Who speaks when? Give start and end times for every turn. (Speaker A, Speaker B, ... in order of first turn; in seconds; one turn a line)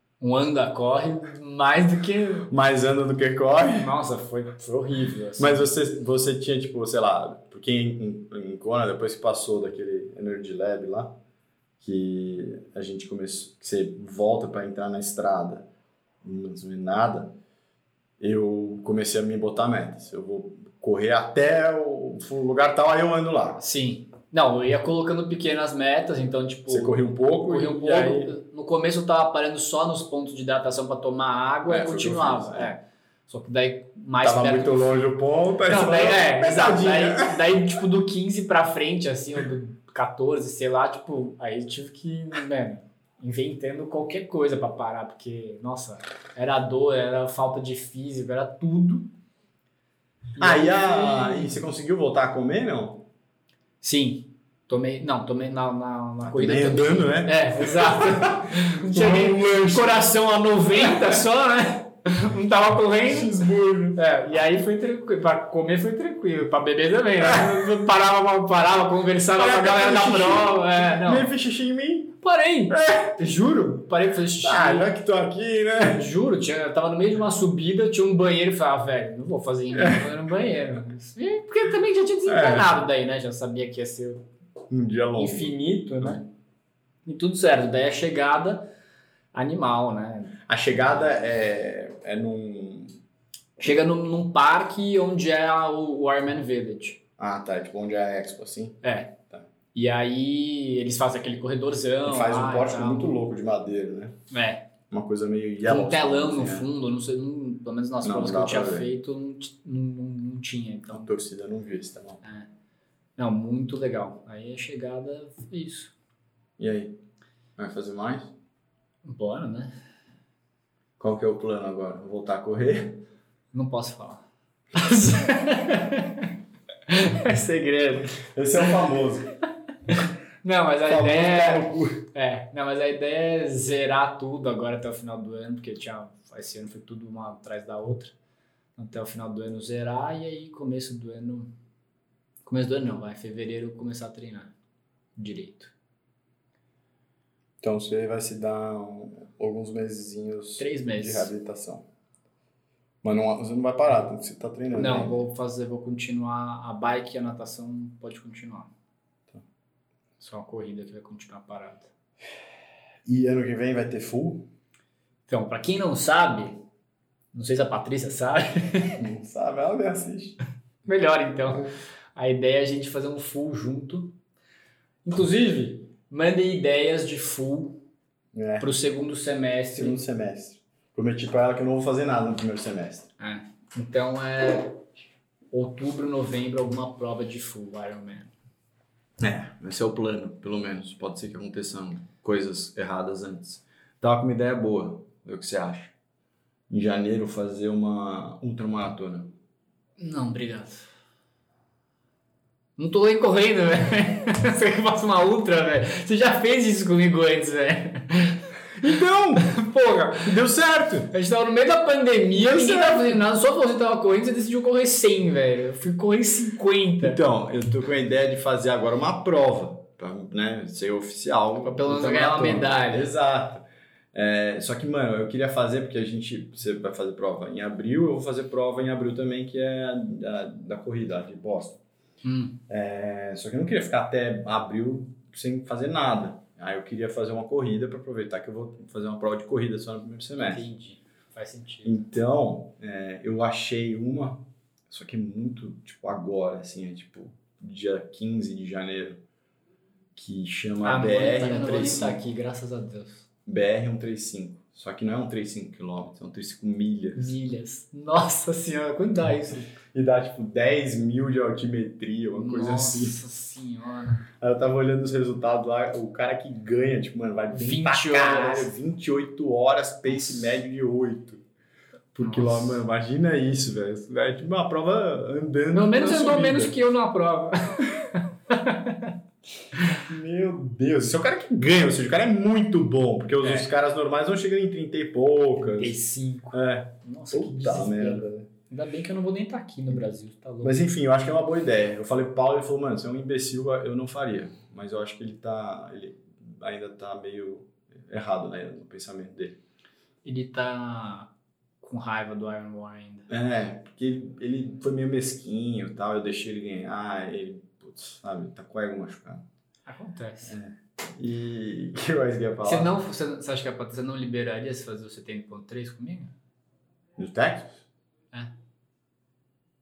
Speaker A: 0.2-2.5
Speaker B: 2.5-3.9
Speaker A: 3.6-5.7
Speaker B: 5.4-11.2
Speaker B: 11.8-15.7
Speaker B: 16.2-17.3
Speaker B: 18.2-23.6
Speaker A: 23.6-35.1
Speaker B: 26.7-28.3
Speaker B: 31.7-32.7
Speaker B: 34.2-37.6
Speaker A: 35.7-49.1
Speaker A: 50.4-51.5
Speaker B: 50.4-53.1
Speaker A: 53.8-63.4
Speaker B: 56.2-60.1
Speaker B: 60.7-61.2
Speaker B: 63.0-64.0
Speaker A: 63.9-71.3
Speaker B: 67.2-67.6
Speaker B: 69.3-72.2
Speaker A: 72.2-74.9
Speaker B: 72.7-73.2
Speaker B: 74.4-76.1
Speaker A: 75.8-84.2
Speaker B: 79.7-80.1
Speaker B: 82.3-82.7
Speaker B: 84.7-86.2
Speaker A: 85.2-86.2
Speaker A: 87.0-88.7
Speaker A: 89.3-90.4
Speaker B: 90.5-93.0
Speaker A: 93.6-97.0
Speaker B: 97.2-99.5
Speaker A: 98.8-99.1
Speaker A: 99.7-103.2
Speaker B: 102.0-104.2
Speaker A: 104.3-104.7
Speaker B: 104.9-106.7
Speaker A: 105.6-111.1
Speaker B: 108.0-108.9
Speaker B: 110.9-112.2
Speaker A: 113.2-115.9
Speaker B: 116.6-117.0
Speaker B: 117.6-118.3
Speaker A: 119.0-119.7
Speaker B: 121.0-123.0
Speaker A: 123.5-124.2
Speaker A: 124.7-126.3
Speaker A: 126.9-128.2
Speaker B: 128.2-129.3
Speaker A: 129.9-138.1
Speaker B: 130.8-132.0
Speaker A: 138.8-141.5
Speaker A: 142.4-144.5
Speaker A: 145.2-145.7
Speaker B: 147.6-151.8
Speaker A: 150.6-151.3
Speaker B: 153.0-155.2
Speaker A: 154.7-158.7
Speaker A: 160.2-161.9
Speaker B: 163.1-164.5
Speaker A: 165.3-166.6
Speaker A: 167.3-169.0
Speaker B: 169.0-170.4
Speaker A: 170.8-174.1
Speaker A: 175.0-177.8
Speaker B: 178.3-178.7
Speaker A: 178.6-180.0
Speaker B: 179.7-183.1
Speaker A: 183.2-184.8
Speaker A: 185.5-188.3
Speaker B: 189.2-195.9
Speaker B: 196.7-199.3
Speaker A: 200.0-200.8
Speaker A: 202.8-208.4
Speaker B: 208.8-209.5
Speaker A: 209.4-210.4
Speaker B: 210.2-211.1
Speaker A: 211.1-217.2
Speaker B: 212.3-213.2
Speaker B: 217.0-231.8
Speaker A: 221.6-223.1
Speaker A: 232.2-232.6
Speaker B: 232.7-240.6
Speaker A: 240.4-242.1
Speaker B: 241.8-249.2
Speaker B: 250.1-252.2
Speaker A: 250.8-253.2
Speaker B: 253.4-257.4
Speaker A: 257.1-259.7
Speaker B: 259.8-263.2
Speaker A: 262.3-264.3
Speaker B: 264.4-271.4
Speaker A: 267.5-268.7
Speaker A: 270.1-270.5
Speaker B: 272.1-276.7
Speaker A: 272.2-272.8
Speaker A: 275.7-279.1
Speaker B: 280.0-285.9
Speaker A: 283.4-283.7
Speaker A: 285.6-290.8
Speaker B: 286.5-288.5
Speaker B: 290.6-299.6
Speaker A: 300.2-301.3
Speaker A: 301.8-303.3
Speaker B: 303.3-309.4
Speaker A: 309.9-310.6
Speaker B: 310.5-312.9
Speaker A: 312.6-316.3
Speaker B: 317.2-317.8